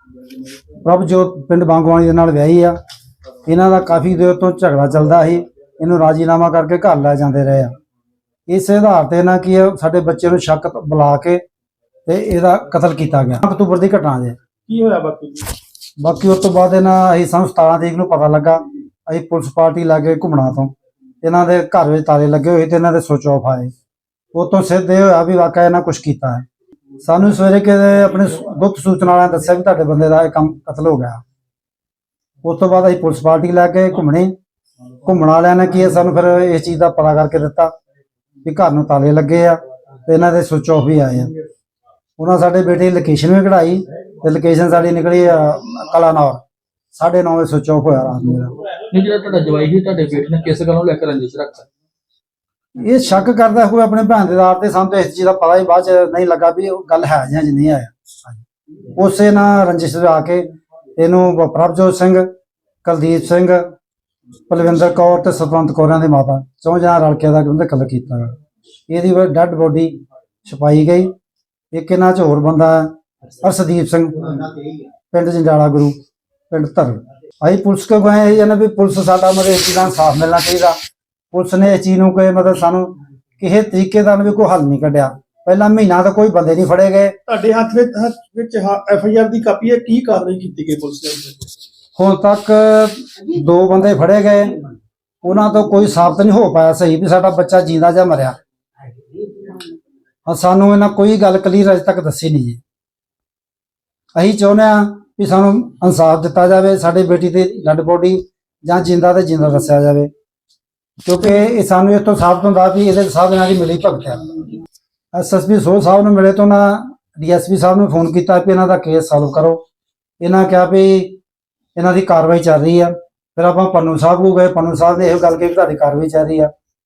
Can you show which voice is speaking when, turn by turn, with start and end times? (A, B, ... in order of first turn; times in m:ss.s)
0:00.8-0:02.8 A
0:03.4-0:07.7 A
0:08.5-0:11.4 A
0:12.0-0:14.4 A
0:14.7-0:15.5 B
0:16.0-0:23.7 A
0:24.3-0:26.4 A
0:27.0-0:31.2 A
0:32.4-0:34.3 A
0:35.0-0:37.7 A
0:38.4-0:41.3 A
0:42.2-0:46.4 A
0:46.9-0:48.5 A
0:48.9-0:51.7 C
0:52.8-0:58.4 A
0:59.0-1:02.3 A
1:02.8-1:03.6 A
1:04.5-1:08.3 A
1:08.9-1:09.9 A
1:10.4-1:11.1 A
1:11.7-1:14.4 A
1:15.1-1:16.0 A
1:16.5-1:20.8 A
1:21.3-1:27.1 A
1:27.3-1:31.3 B
1:32.0-1:34.6 A
1:35.2-1:38.4 A
1:40.2-1:42.6 A
1:44.2-1:50.1 A
1:51.0-1:54.3 A
1:55.1-1:59.6 A
2:00.2-2:01.2 A
2:01.8-2:06.5 A